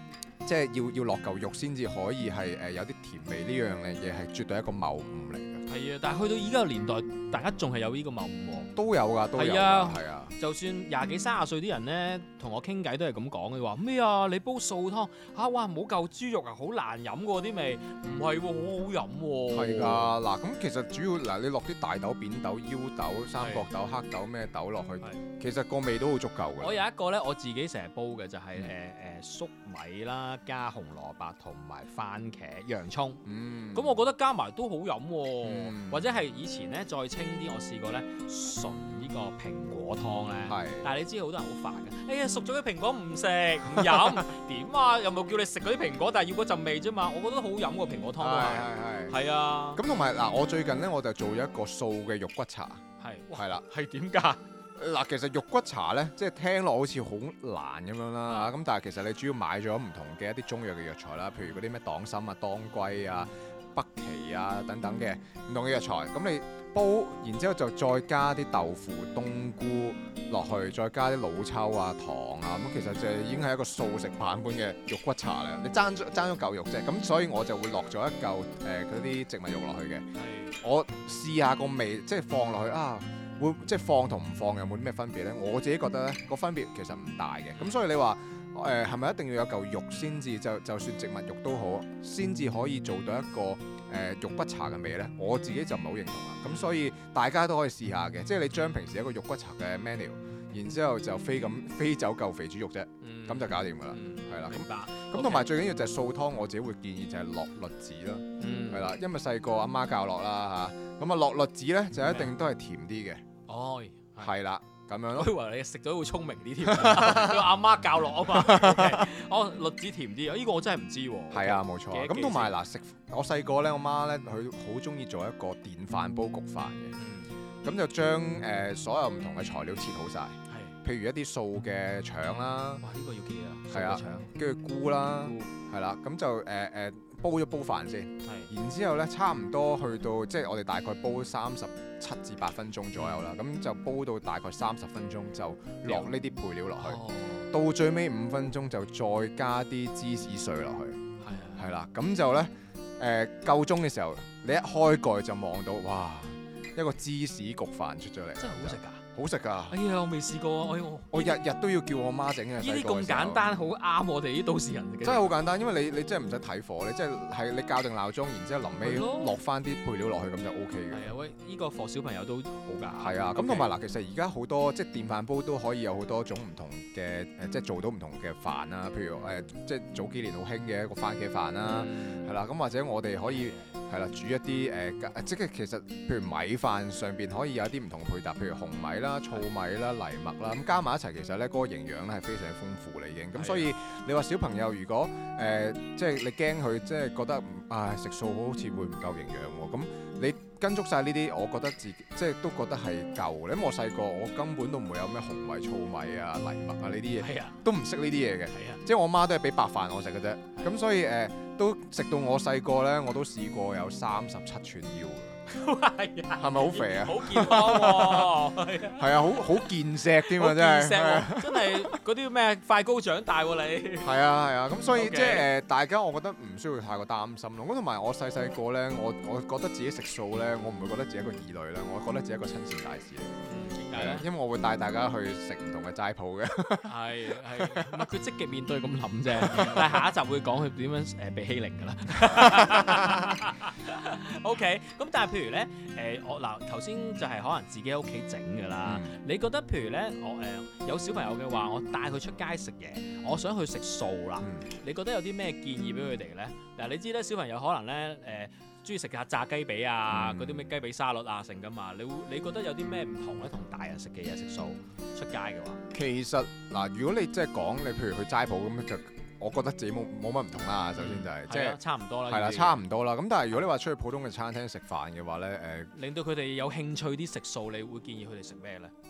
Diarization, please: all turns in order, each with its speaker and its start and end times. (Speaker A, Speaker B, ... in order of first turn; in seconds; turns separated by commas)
Speaker A: 0.4-5.6, Speaker B: 5.7-8.7, Speaker A: 8.7-10.3, Speaker B: 9.3-20.1, Speaker A: 19.5-26.8, Speaker B: 23.4-23.6, Speaker B: 26.6-33.2, Speaker A: 33.2-34.0, Speaker B: 33.7-49.8, Speaker A: 35.4-36.1, Speaker A: 40.4-40.9, Speaker A: 43.7-44.2, Speaker A: 48.2-49.2, Speaker A: 49.7-52.8, Speaker B: 53.0-54.4, Speaker A: 53.3-53.6, Speaker A: 54.8-80.0, Speaker B: 58.2-58.5, Speaker B: 80.2-80.6, Speaker A: 80.6-113.2, Speaker B: 87.5-87.8, Speaker B: 96.5-96.9, Speaker B: 103.0-105.5, Speaker B: 108.4-108.9, Speaker B: 112.0-112.3, Speaker B: 113.5-114.3, Speaker A: 114.2-115.3, Speaker B: 115.1-122.6, Speaker A: 116.6-117.6, Speaker A: 118.2-119.1, Speaker A: 121.3-126.9, Speaker B: 127.0-127.3, Speaker A: 127.6-132.8, Speaker B: 130.5-130.7, Speaker B: 132.8-134.3, Speaker A: 133.7-151.0, Speaker B: 135.2-135.5, Speaker B: 138.2-138.5, Speaker B: 142.9-143.2, Speaker B: 145.8-146.1, Speaker B: 146.8-147.5, Speaker B: 151.2-151.6, Speaker A: 151.6-159.8, Speaker B: 158.4-159.0, Speaker B: 159.7-161.4, Speaker A: 161.1-163.5, Speaker B: 162.6-165.3, Speaker A: 165.0-171.1, Speaker B: 168.8-169.3, Speaker B: 170.9-173.7, Speaker A: 172.9-215.4, Speaker B: 181.6-182.3, Speaker B: 183.2-183.7, Speaker B: 193.3-193.7, Speaker B: 207.2-207.6, Speaker B: 208.5-208.8, Speaker B: 215.5-219.7, Speaker A: 216.4-218.4, Speaker A: 218.9-221.9, Speaker B: 220.2-224.1, Speaker A: 224.0-233.4, Speaker B: 224.9-225.5, Speaker B: 233.4-234.3, Speaker A: 233.9-238.1, Speaker B: 236.8-265.8, Speaker A: 239.3-240.0, Speaker A: 242.3-242.8, Speaker A: 248.8-249.2, Speaker A: 254.4-254.7, Speaker A: 260.1-260.7, Speaker A: 265.9-275.9, Speaker B: 270.9-272.8, Speaker B: 275.9-278.9